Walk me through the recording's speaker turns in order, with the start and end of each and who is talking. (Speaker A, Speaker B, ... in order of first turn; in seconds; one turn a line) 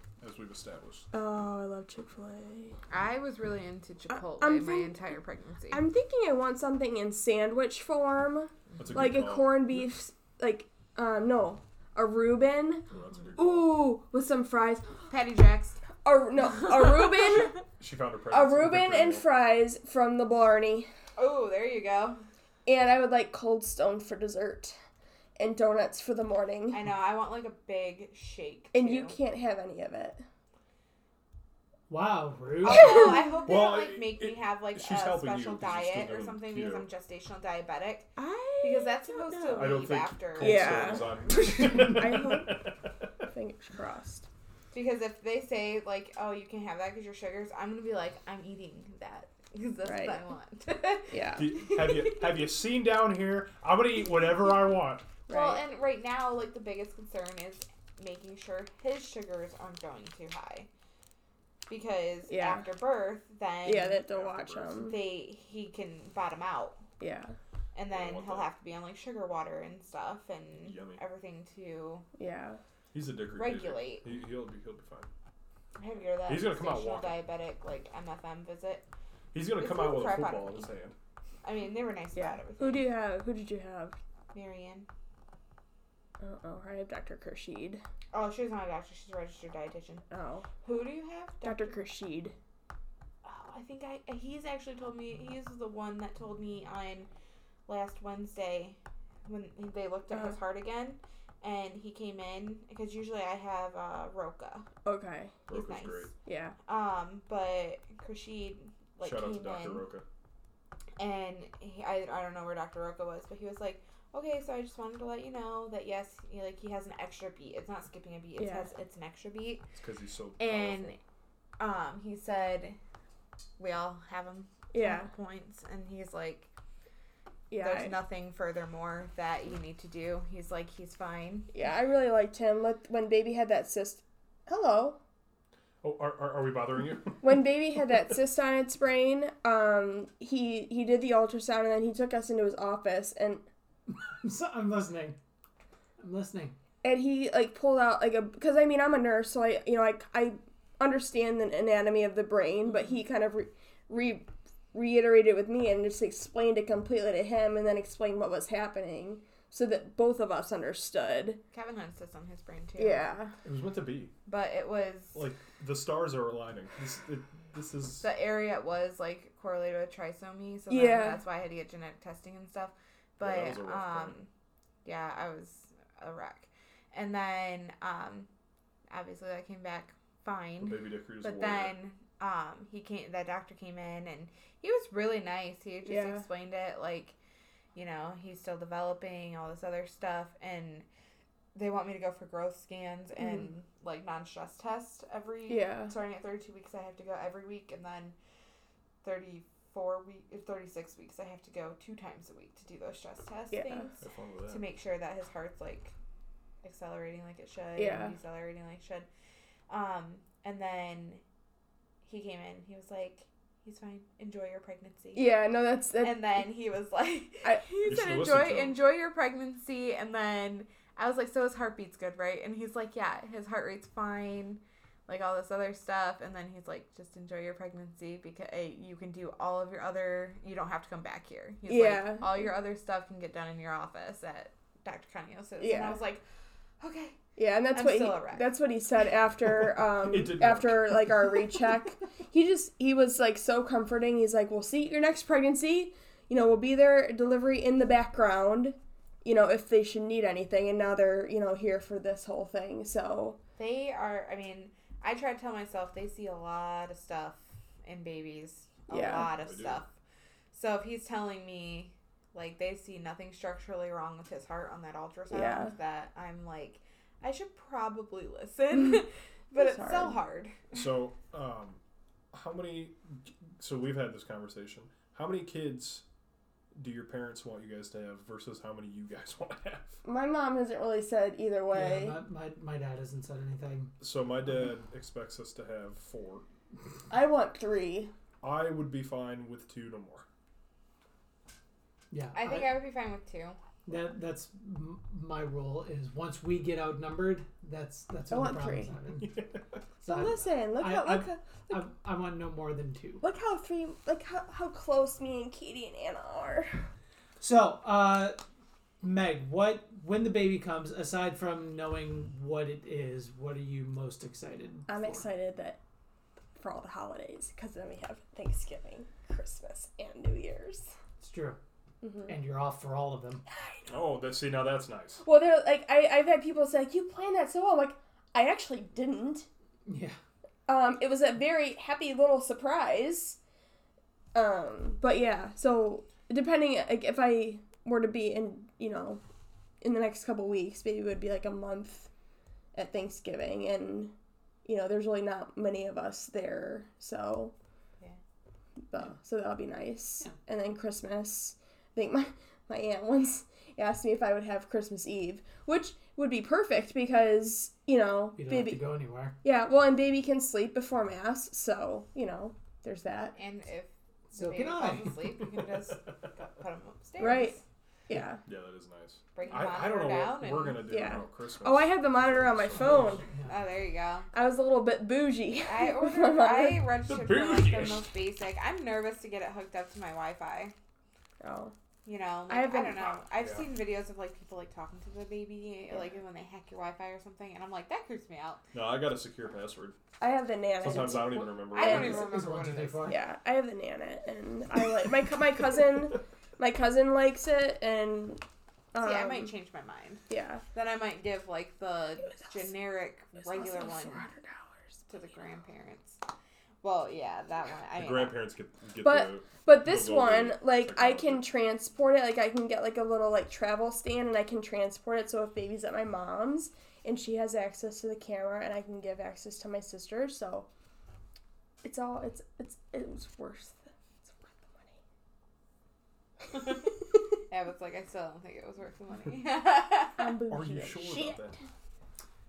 Speaker A: 0.2-1.1
Speaker B: 1.1-2.8
Speaker C: 2.9-5.8
Speaker B: 4.1-5.0
Speaker B: 5.7-12.8
Speaker A: 8.8-9.8
Speaker A: 12.9-13.8
Speaker B: 13.4-14.9
Speaker C: 15.1-15.8
Speaker B: 16.0-17.6
Speaker A: 17.4-19.2
Speaker B: 18.3-20.9
Speaker C: 21.2-22.2
Speaker B: 22.6-24.8
Speaker B: 25.4-26.8
Speaker C: 26.7-29.2
Speaker B: 28.7-30.2
Speaker D: 31.9-33.1
Speaker C: 32.6-38.1
Speaker B: 32.6-33.5
Speaker A: 33.5-36.9
Speaker B: 38.2-39.8
Speaker C: 38.6-41.2
Speaker A: 39.5-43.3
Speaker B: 40.4-42.5
Speaker B: 43.3-44.3
Speaker C: 44.7-52.4
Speaker B: 49.8-50.2
Speaker B: 51.1-51.5
Speaker A: 51.4-55.1
Speaker B: 55.3-55.6
Speaker C: 55.3-60.7
Speaker C: 61.7-64.0
Speaker B: 62.3-62.6
Speaker B: 63.6-65.0
Speaker A: 64.0-65.0
Speaker C: 64.8-66.8
Speaker B: 67.0-67.3
Speaker C: 67.7-72.0
Speaker A: 67.9-68.5
Speaker A: 70.6-71.0
Speaker B: 72.2-72.6
Speaker A: 72.9-75.1
Speaker C: 73.3-74.0
Speaker C: 75.8-78.9
Speaker A: 76.3-77.2
Speaker A: 79.3-80.9
Speaker C: 79.6-80.7
Speaker C: 81.4-82.9
Speaker B: 82.1-84.0
Speaker C: 84.3-84.9
Speaker B: 86.2-87.8
Speaker C: 88.1-90.0
Speaker B: 90.1-90.5
Speaker C: 90.6-91.8
Speaker B: 91.4-92.3
Speaker C: 93.2-97.1
Speaker C: 97.7-104.7
Speaker B: 100.1-100.4
Speaker B: 104.8-105.3
Speaker A: 105.5-106.1
Speaker C: 105.5-106.1
Speaker B: 106.2-106.5
Speaker C: 106.7-109.8
Speaker A: 109.0-110.0
Speaker C: 111.0-119.6
Speaker B: 118.4-118.7
Speaker A: 119.8-120.9
Speaker C: 120.4-121.0
Speaker C: 121.6-122.8
Speaker C: 123.6-126.5
Speaker B: 124.7-125.1
Speaker B: 127.5-127.9
Speaker C: 127.6-131.5
Speaker B: 131.5-135.0
Speaker A: 135.8-137.4
Speaker B: 137.2-143.4
Speaker D: 144.1-145.2
Speaker D: 146.0-146.5
Speaker B: 146.8-161.4
Speaker C: 161.5-163.1
Speaker B: 162.8-163.3
Speaker A: 163.4-164.1
Speaker C: 164.2-165.2
Speaker A: 165.1-168.1
Speaker C: 168.0-174.3
Speaker B: 170.7-171.2
Speaker A: 173.2-174.1
Speaker C: 174.8-178.3
Speaker C: 178.9-187.2
Speaker A: 180.6-181.7
Speaker B: 185.8-186.2
Speaker C: 187.7-190.8
Speaker C: 191.5-198.1
Speaker B: 193.2-193.5
Speaker B: 195.5-195.9
Speaker C: 199.0-205.9
Speaker B: 203.5-203.9
Speaker A: 204.0-204.6
Speaker C: 206.6-209.1
Speaker B: 207.8-208.1
Speaker C: 209.7-211.2
Speaker C: 212.0-215.3
Speaker B: 215.1-216.4
Speaker C: 216.0-236.2
Speaker A: 217.8-218.8
Speaker B: 231.7-232.5
Speaker B: 235.6-236.0
Speaker C: 236.8-237.2
Speaker B: 237.4-253.4
Speaker C: 237.7-238.5
Speaker A: 239.5-241.3
Speaker C: 253.6-259.9
Speaker B: 258.9-259.3
Speaker A: 259.3-259.8
Speaker C: 260.5-270.7
Speaker B: 265.3-265.7
Speaker B: 269.5-270.2
Speaker A: 270.7-271.8
Speaker A: 272.3-276.0
Speaker A: 276.7-280.0
Speaker B: 280.0-282.2
Speaker D: 281.7-283.9
Speaker A: 284.0-286.4
Speaker B: 287.1-288.1
Speaker A: 288.4-290.2
Speaker D: 292.1-292.7
Speaker C: 292.3-293.6
Speaker D: 293.9-299.4
Speaker B: 298.3-298.9
Speaker A: 299.2-299.8
Speaker D: 300.0-303.2
Speaker B: 300.1-301.8
Speaker B: 303.2-306.9
Speaker D: 307.4-308.4
Speaker D: 309.0-315.3
Speaker B: 314.9-315.8
Speaker B: 316.6-320.9
Speaker D: 321.2-321.6
Speaker B: 322.0-322.3
Speaker D: 322.3-323.4
Speaker B: 323.5-323.9
Speaker A: 323.9-325.2
Speaker B: 325.2-329.5
Speaker D: 329.9-330.2
Speaker B: 330.6-333.4
Speaker B: 334.3-339.2
Speaker B: 339.8-342.1
Speaker B: 342.7-344.1
Speaker B: 344.6-347.5
Speaker B: 348.9-358.9
Speaker D: 358.4-359.3
Speaker B: 359.4-363.4
Speaker C: 363.4-367.6
Speaker D: 364.3-365.2
Speaker A: 365.2-366.2
Speaker B: 367.2-367.6
Speaker B: 368.1-368.4
Speaker A: 368.4-373.2
Speaker C: 369.3-370.8
Speaker B: 370.9-373.2
Speaker D: 372.7-373.6
Speaker C: 373.4-374.3
Speaker B: 374.3-376.8
Speaker C: 375.6-380.7
Speaker A: 377.1-378.1
Speaker B: 381.4-381.7
Speaker C: 382.0-388.6
Speaker B: 382.5-383.1
Speaker A: 383.0-383.7
Speaker A: 388.7-389.9
Speaker B: 390.2-392.2
Speaker A: 390.8-392.3
Speaker D: 391.2-393.2
Speaker C: 391.6-393.2
Speaker B: 393.0-399.5
Speaker C: 399.0-400.2
Speaker B: 400.3-400.6
Speaker C: 400.7-404.2
Speaker B: 403.4-404.9
Speaker C: 405.1-406.2
Speaker C: 406.8-408.3
Speaker A: 408.0-411.4
Speaker B: 409.0-420.7
Speaker B: 421.8-425.0
Speaker C: 427.5-430.4
Speaker B: 430.2-431.5
Speaker A: 430.5-431.6